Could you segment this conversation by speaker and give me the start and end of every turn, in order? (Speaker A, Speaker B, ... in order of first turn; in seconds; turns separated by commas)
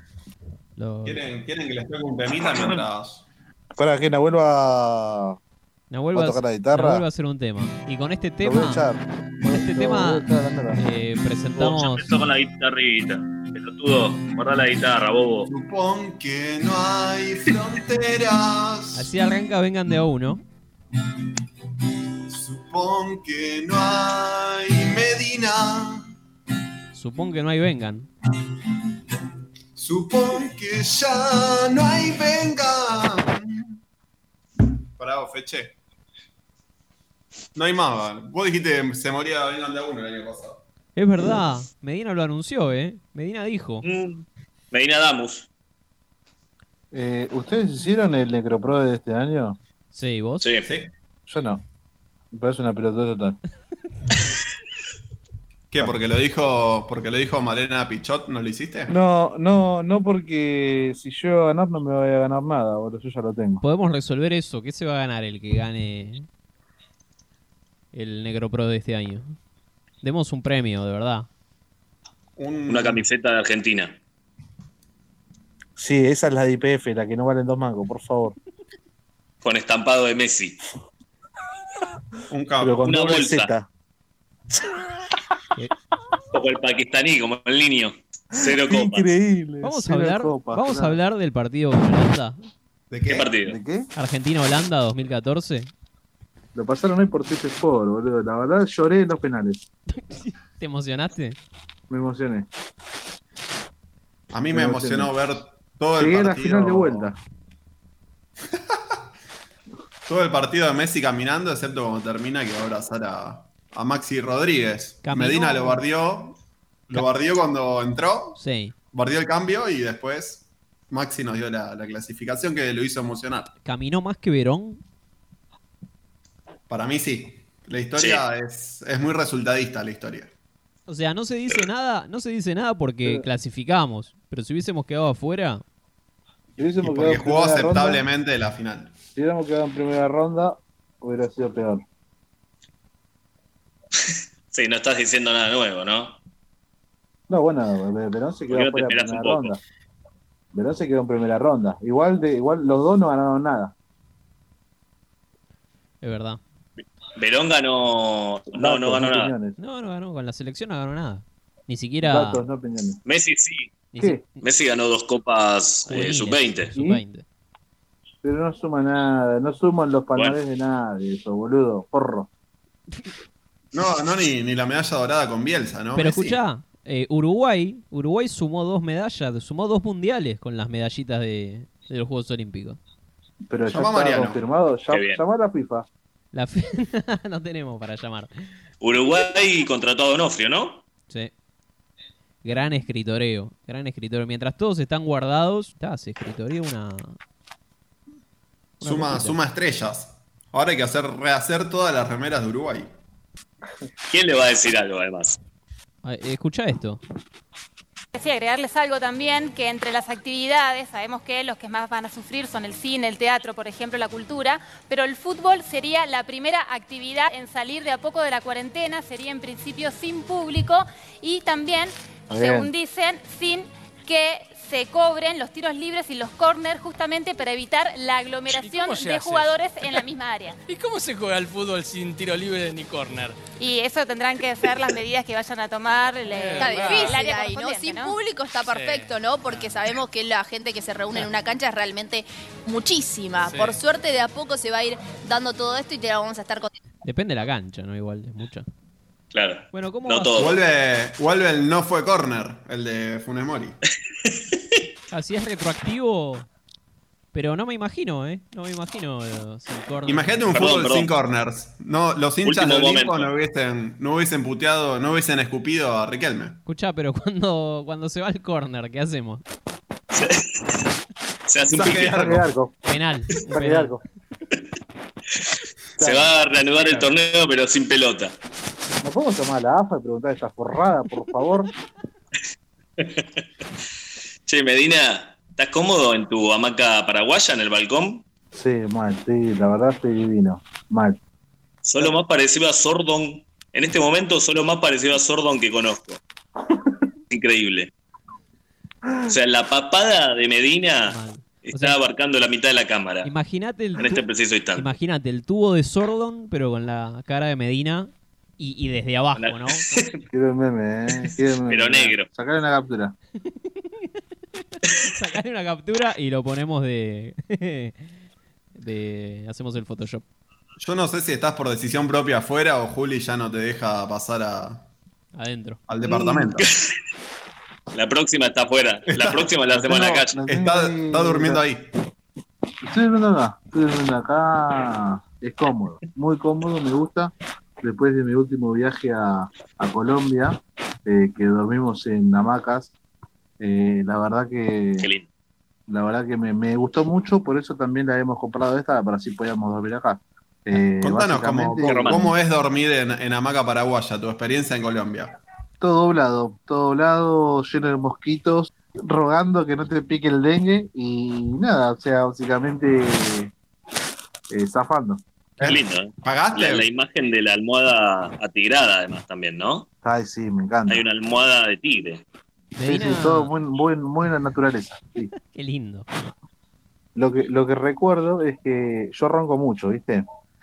Speaker A: 0.8-1.2, Speaker B: 1.1-3.2, Speaker C: 3.8-5.4, Speaker A: 5.9-8.9, Speaker C: 6.1-7.0, Speaker C: 8.4-10.8, Speaker A: 9.5-12.1, Speaker D: 11.6-15.5, Speaker B: 15.5-19.1, Speaker A: 18.9-20.4, Speaker B: 22.3-26.1, Speaker A: 26.9-28.1, Speaker B: 29.8-33.7, Speaker B: 35.0-35.8, Speaker B: 37.5-40.6, Speaker A: 41.0-43.9, Speaker D: 43.8-45.5, Speaker C: 46.9-49.6, Speaker A: 49.9-50.5, Speaker D: 50.4-50.7, Speaker B: 50.7-50.9, Speaker C: 51.3-51.6, Speaker C: 52.3-53.4, Speaker B: 55.7-58.9, Speaker C: 58.9-63.6, Speaker A: 63.6-66.3, Speaker A: 67.9-69.3, Speaker A: 70.0-71.3, Speaker B: 72.4-73.0, Speaker D: 72.7-74.0, Speaker C: 75.8-78.4, Speaker D: 79.4-80.6, Speaker B: 82.3-82.8, Speaker C: 82.6-83.7, Speaker D: 82.8-83.5, Speaker D: 86.3-89.1, Speaker C: 88.4-91.0, Speaker A: 89.6-92.4, Speaker B: 92.9-93.3, Speaker D: 93.1-93.6, Speaker C: 93.4-93.9, Speaker A: 94.0-95.7, Speaker C: 96.5-99.7, Speaker A: 99.9-101.4, Speaker C: 101.9-102.5, Speaker B: 104.3-107.1, Speaker C: 104.5-105.1, Speaker C: 106.0-107.2, Speaker B: 108.5-108.8, Speaker B: 110.1-116.4, Speaker A: 115.0-115.8, Speaker B: 116.9-118.4, Speaker A: 118.4-118.7, Speaker B: 118.9-123.5, Speaker A: 123.7-124.8, Speaker B: 126.7-130.3, Speaker D: 128.0-128.2, Speaker A: 130.9-135.6, Speaker C: 136.6-138.0, Speaker B: 136.8-138.9, Speaker C: 139.2-141.8, Speaker D: 144.0-146.2, Speaker C: 147.3-149.6, Speaker D: 148.5-149.6, Speaker C: 150.5-153.7, Speaker A: 156.0-156.4, Speaker D: 157.2-159.3, Speaker C: 158.5-159.6, Speaker A: 159.6-162.4, Speaker C: 162.0-163.0, Speaker D: 163.1-163.7, Speaker A: 163.9-164.4, Speaker D: 164.4-166.7, Speaker A: 165.9-167.2, Speaker C: 166.8-167.0, Speaker C: 168.2-172.3, Speaker B: 173.7-176.4, Speaker A: 175.9-182.8, Speaker C: 183.5-185.9, Speaker B: 183.7-184.4, Speaker D: 184.9-185.2, Speaker A: 186.3-188.3, Speaker D: 188.8-190.8, Speaker A: 192.4-197.2, Speaker A: 198.8-199.4, Speaker B: 198.8-202.9, Speaker D: 204.1-205.4, Speaker A: 206.0-207.0, Speaker E: 208.1-230.6, Speaker C: 222.3-222.7, Speaker F: 228.5-230.0, Speaker F: 230.7-233.4, Speaker E: 233.6-238.2, Speaker F: 236.3-237.3, Speaker G: 236.6-246.7, Speaker F: 238.7-239.8, Speaker F: 243.4-243.8, Speaker A: 247.0-248.7, Speaker D: 249.3-250.6, Speaker A: 249.7-250.4, Speaker B: 250.4-253.8, Speaker A: 255.1-256.5, Speaker A: 257.3-260.6, Speaker B: 260.1-266.6, Speaker D: 260.5-261.1, Speaker D: 262.4-263.3, Speaker A: 266.7-269.4, Speaker D: 270.1-270.8, Speaker D: 271.5-272.2, Speaker B: 271.7-272.5, Speaker C: 271.8-272.8, Speaker A: 272.9-273.9, Speaker C: 273.5-274.0, Speaker C: 276.0-277.1, Speaker D: 276.0-278.4, Speaker C: 279.0-281.7, Speaker D: 283.0-283.4, Speaker D: 284.5-288.2, Speaker C: 288.5-291.2, Speaker D: 291.8-296.2, Speaker D: 297.3-297.9, Speaker D: 299.3-303.3, Speaker A: 301.1-302.0, Speaker A: 303.2-304.2, Speaker D: 304.0-304.9, Speaker A: 304.8-310.0, Speaker D: 309.4-310.2, Speaker C: 310.3-313.1, Speaker D: 311.2-312.3, Speaker A: 315.0-318.1, Speaker A: 318.8-320.2, Speaker B: 320.8-324.9, Speaker A: 325.4-325.8, Speaker B: 325.9-326.7, Speaker D: 326.1-326.9, Speaker D: 327.9-330.4, Speaker B: 329.1-329.5, Speaker C: 329.7-331.6, Speaker B: 330.5-331.9, Speaker C: 332.8-342.9, Speaker C: 343.6-345.1, Speaker D: 345.0-345.3, Speaker C: 345.9-352.3, Speaker B: 350.8-355.4, Speaker D: 351.8-352.3, Speaker C: 355.8-363.5, Speaker C: 364.5-365.2, Speaker B: 365.6-366.9, Speaker D: 365.6-369.9, Speaker C: 370.0-371.1, Speaker D: 370.9-372.2, Speaker A: 372.8-373.5, Speaker C: 372.8-375.3, Speaker A: 375.4-376.1, Speaker C: 377.1-380.3